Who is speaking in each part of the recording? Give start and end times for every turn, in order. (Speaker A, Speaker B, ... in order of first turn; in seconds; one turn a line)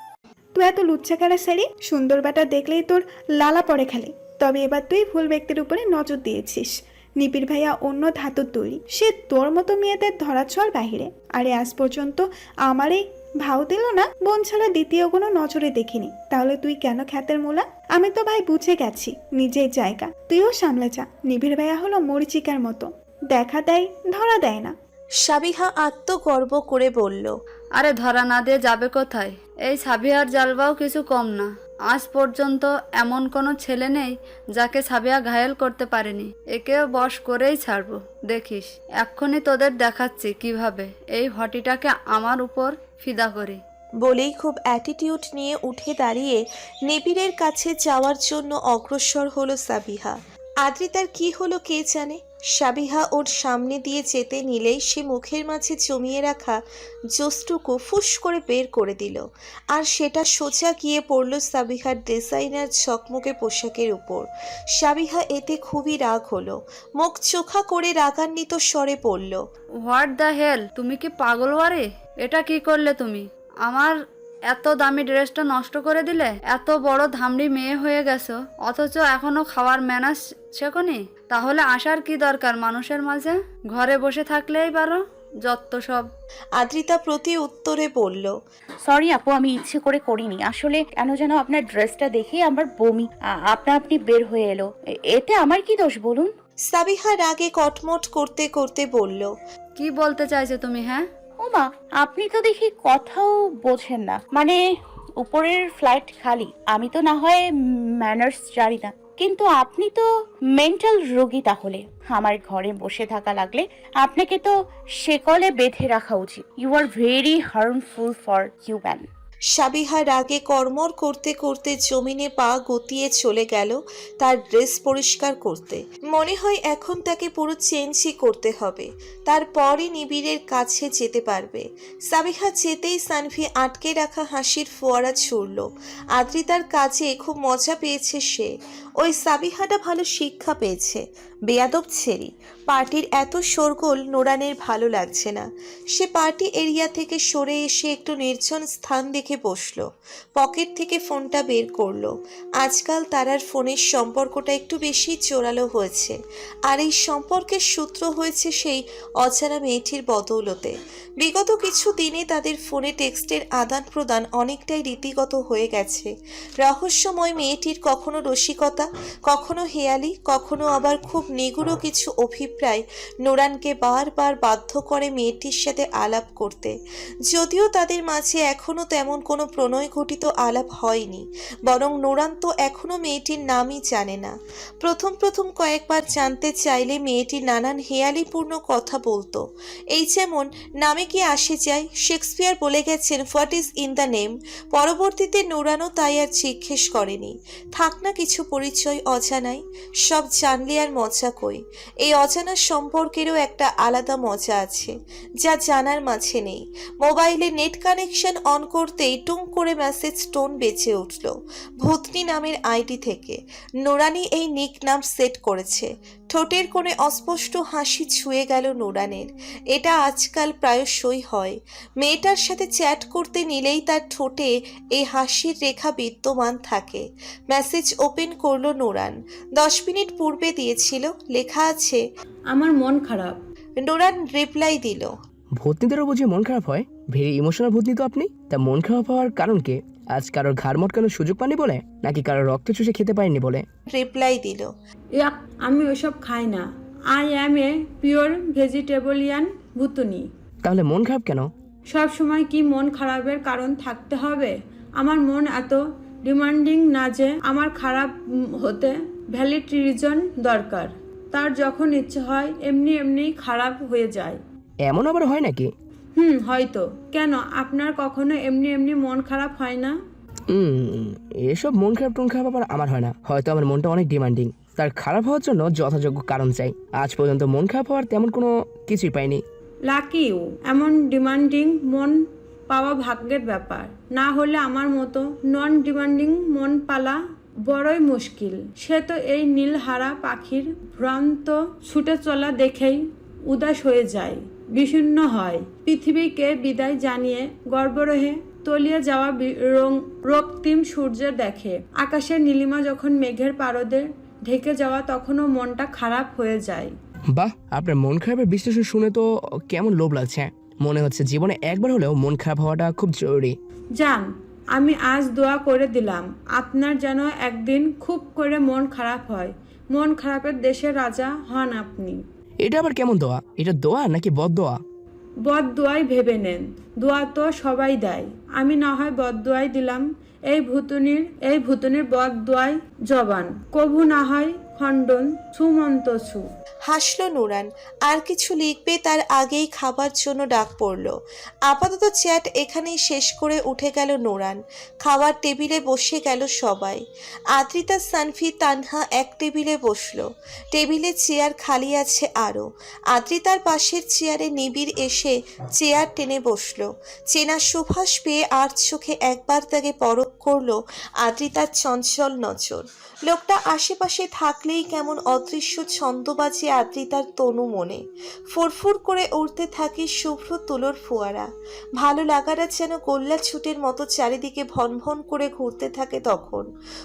Speaker A: 0.6-24.7
Speaker B: 25.2-27.4
Speaker C: 27.8-43.6
Speaker B: 44.0-56.6
Speaker B: 57.1-69.4
Speaker C: 69.8-73.9
Speaker C: 74.5-86.1
Speaker B: 86.5-88.3
Speaker D: 88.8-96.3
Speaker B: 96.7-99.3
Speaker C: 99.8-101.0
Speaker D: 101.4-104.6
Speaker D: 105.2-107.5
Speaker D: 108.0-110.0
Speaker D: 110.5-119.1
Speaker B: 119.5-156.2
Speaker B: 156.7-166.1
Speaker B: 166.6-176.7
Speaker B: 177.3-232.0
Speaker E: 232.5-233.4
Speaker B: 233.8-235.1
Speaker F: 235.6-243.7
Speaker B: 243.9-244.7
Speaker E: 245.2-250.2
Speaker F: 250.6-251.5
Speaker E: 251.9-258.1
Speaker E: 258.6-264.4
Speaker F: 264.8-265.7
Speaker E: 266.2-269.9
Speaker F: 270.5-279.4
Speaker E: 279.9-282.1
Speaker E: 282.7-306.9
Speaker F: 307.3-313.6
Speaker E: 314.0-314.2
Speaker E: 314.8-322.2
Speaker F: 322.6-324.8
Speaker E: 325.4-336.4
Speaker B: 336.9-341.1
Speaker B: 341.6-347.0
Speaker B: 347.5-368.0
Speaker B: 368.5-371.5
Speaker B: 372.0-376.6